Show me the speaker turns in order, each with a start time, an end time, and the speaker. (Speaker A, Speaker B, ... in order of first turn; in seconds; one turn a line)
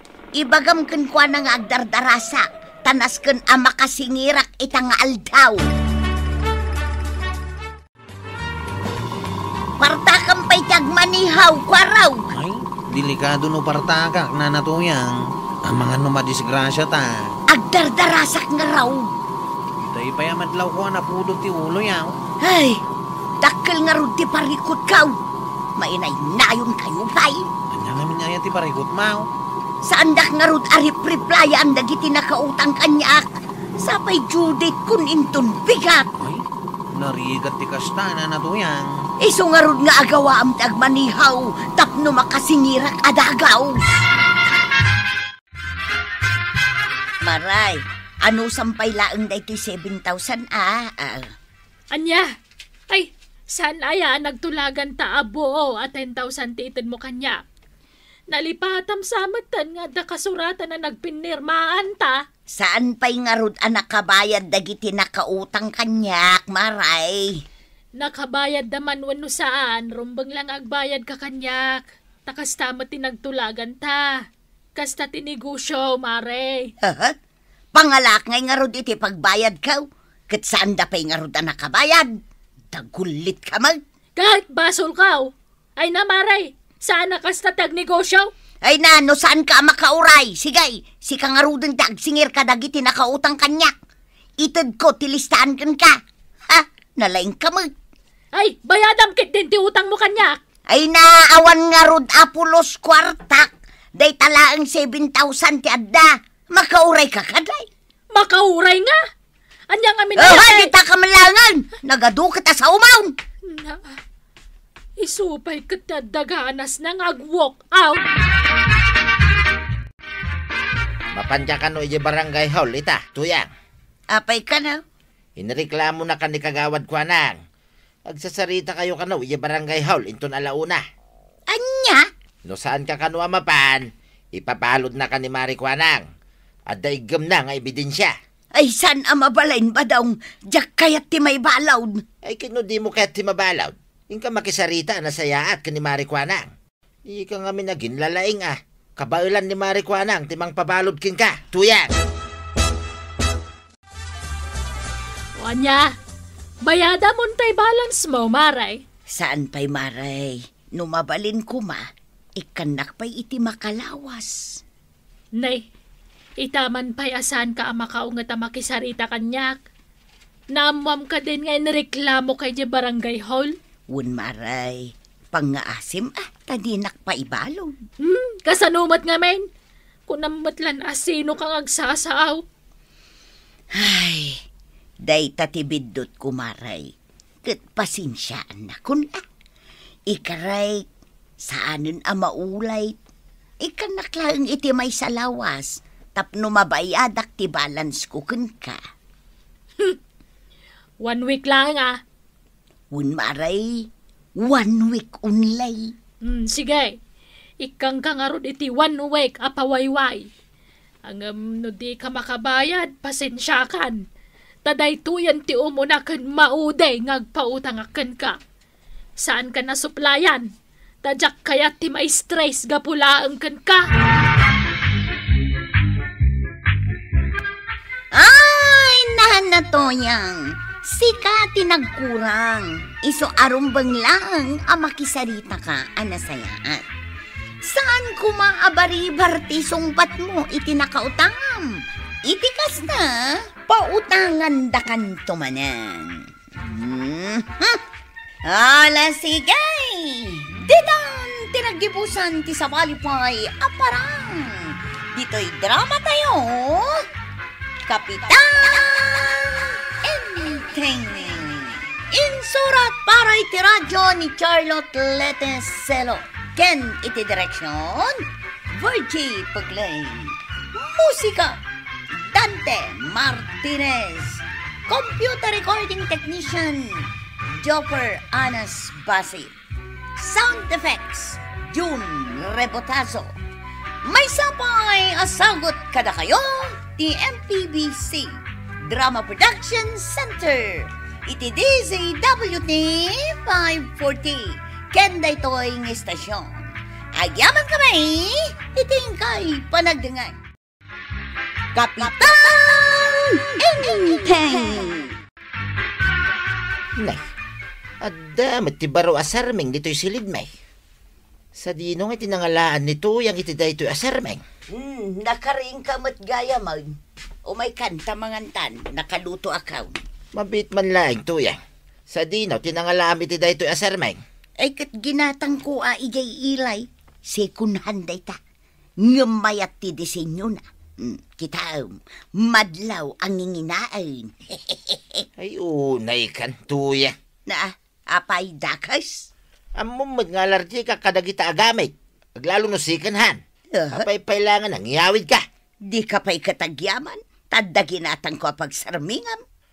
Speaker A: 0.3-5.6
Speaker A: 9.8-12.3
Speaker B: 12.3-17.3
Speaker A: 17.5-19.1
Speaker B: 19.8-22.2
Speaker A: 22.4-22.8
Speaker A: 23.4-25.2
Speaker A: 25.8-27.5
Speaker B: 27.7-29.3
Speaker A: 29.9-36.1
Speaker B: 36.2-38.9
Speaker A: 39.2-44.0
Speaker A: 47.2-51.3
Speaker C: 51.9-52.3
Speaker C: 52.9-57.4
Speaker C: 58.3-62.2
Speaker A: 62.6-67.4
Speaker C: 68.0-74.1
Speaker C: 74.8-76.7
Speaker A: 76.8-77.2
Speaker A: 77.7-82.2
Speaker A: 82.7-83.8
Speaker C: 84.2-88.3
Speaker A: 88.6-93.7
Speaker A: 94.4-96.0
Speaker A: 96.5-97.7
Speaker C: 98.3-100.4
Speaker A: 100.7-107.7
Speaker C: 108.1-109.0
Speaker C: 109.7-110.7
Speaker A: 110.2-113.2
Speaker C: 113.5-114.0
Speaker C: 115.0-118.0
Speaker D: 121.1-123.5
Speaker A: 124.1-124.8
Speaker D: 125.4-127.4
Speaker D: 128.1-130.8
Speaker A: 131.5-132.1
Speaker D: 132.4-136.0
Speaker D: 136.7-138.1
Speaker A: 138.5-142.0
Speaker D: 142.2-146.5
Speaker D: 147.1-151.9
Speaker C: 155.4-155.9
Speaker C: 156.6-158.8
Speaker A: 159.1-161.8
Speaker A: 162.4-164.6
Speaker C: 165.4-165.6
Speaker C: 166.4-169.6
Speaker C: 170.5-173.6
Speaker A: 173.9-177.8
Speaker C: 178.0-179.4
Speaker C: 180.1-182.4
Speaker A: 183.7-184.4
Speaker A: 185.0-186.9
Speaker A: 187.4-189.2
Speaker A: 190.1-190.8
Speaker A: 191.4-192.9
Speaker A: 193.6-198.8
Speaker C: 201.0-202.0
Speaker A: 202.9-203.9
Speaker A: 204.4-205.9
Speaker C: 206.2-206.9
Speaker C: 207.6-210.3
Speaker C: 211.0-214.0
Speaker C: 214.6-218.4
Speaker C: 219.2-220.5
Speaker C: 221.0-223.8
Speaker A: 228.1-236.8
Speaker A: 237.6-247.8
Speaker A: 248.4-257.0
Speaker A: 257.9-271.6
Speaker A: 272.1-279.5
Speaker A: 280.2-283.3
Speaker A: 284.0-300.4
Speaker A: 301.7-305.1
Speaker D: 307.0-307.2
Speaker D: 308.0-310.5
Speaker D: 311.6-314.4
Speaker A: 314.7-320.0
Speaker D: 320.3-324.2
Speaker A: 324.6-328.4
Speaker A: 329.0-335.2
Speaker D: 335.4-337.1
Speaker A: 337.5-339.3
Speaker D: 339.8-343.4
Speaker A: 343.7-344.1
Speaker D: 343.9-345.4
Speaker A: 345.9-349.4